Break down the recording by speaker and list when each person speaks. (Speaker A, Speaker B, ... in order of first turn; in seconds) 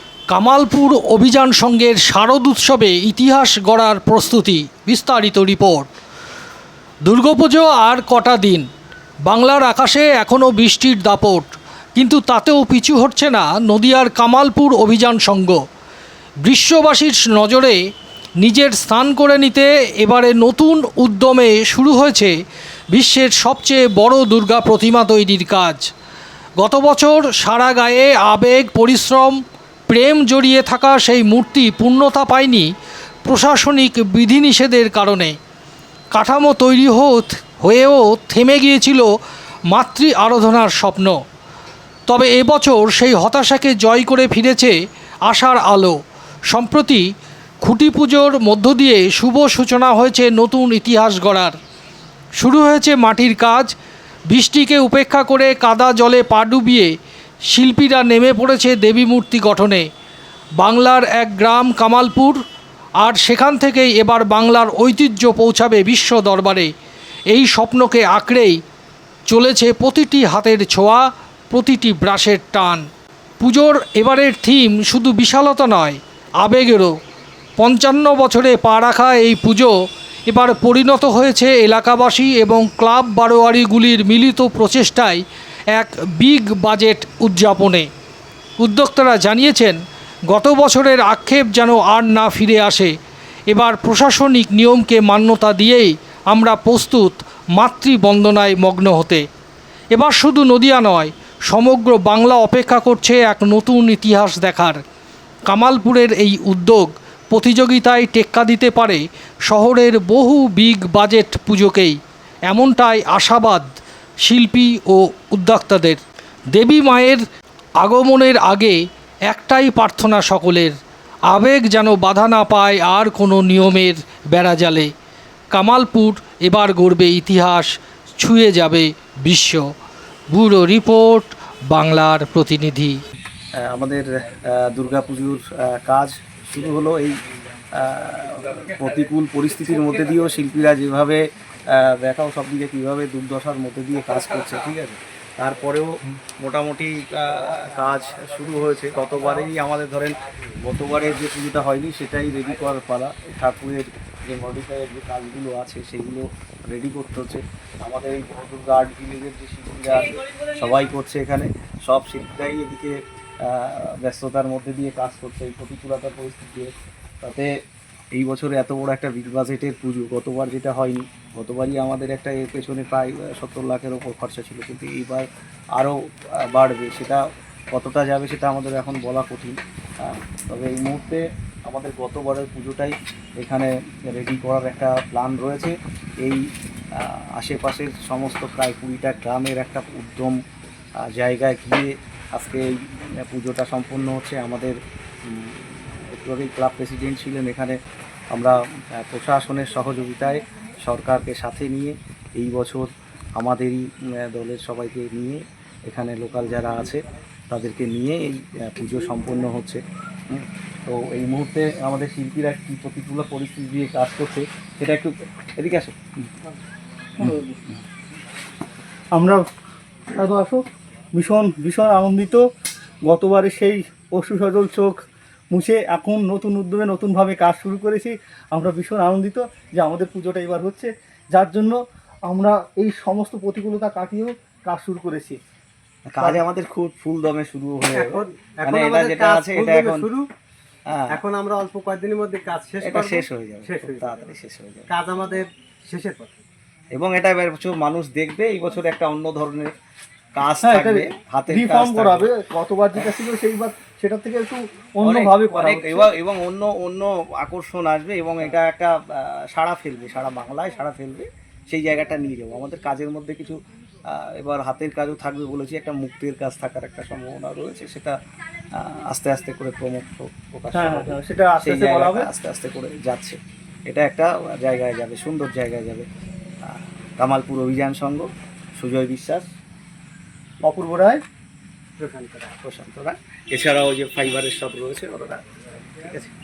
Speaker A: 0.3-5.9, 7.0-8.7, 9.3-15.6, 16.4-17.8, 18.4-22.3, 22.9-25.9, 26.6-29.4, 29.9-32.7, 33.2-35.4, 36.1-39.1, 39.7-41.2, 42.1-44.7, 45.3-46.0, 46.5-47.0, 47.6-51.6, 52.4-53.7, 54.3-56.9, 57.5-59.9, 60.6-62.4, 63.0-66.7, 67.3-68.6, 69.3-72.8, 73.4-77.0, 77.6-79.7, 80.3-87.9, 88.6-89.8, 90.3-92.9, 93.5-99.2, 99.9-104.8, 105.5-112.0, 112.5-113.7, 114.2-116.0, 116.5-117.2, 117.8-118.8, 119.3-120.7, 121.3-124.9, 125.5-129.7, 130.3-133.0
Speaker B: 133.6-137.2, 137.8-167.5, 168.1-186.4, 187.0-190.4, 191.0-197.8, 198.3-216.0, 236.1-240.1, 240.9-241.2, 242.8-244.9, 246.9-249.7, 250.3-252.3, 255.0-263.6, 264.1-268.1, 268.8-276.1, 276.6-279.5, 282.6-285.4, 286.0-286.3
Speaker C: 217.2-217.6, 219.1-219.4, 220.2-220.6, 221.1-222.4, 223.1-224.9, 225.5-235.4, 250.6-256.1, 270.7-272.3, 280.6-281.2
Speaker D: 237.9-240.3, 241.1-244.1, 244.9-246.4, 282.0-282.6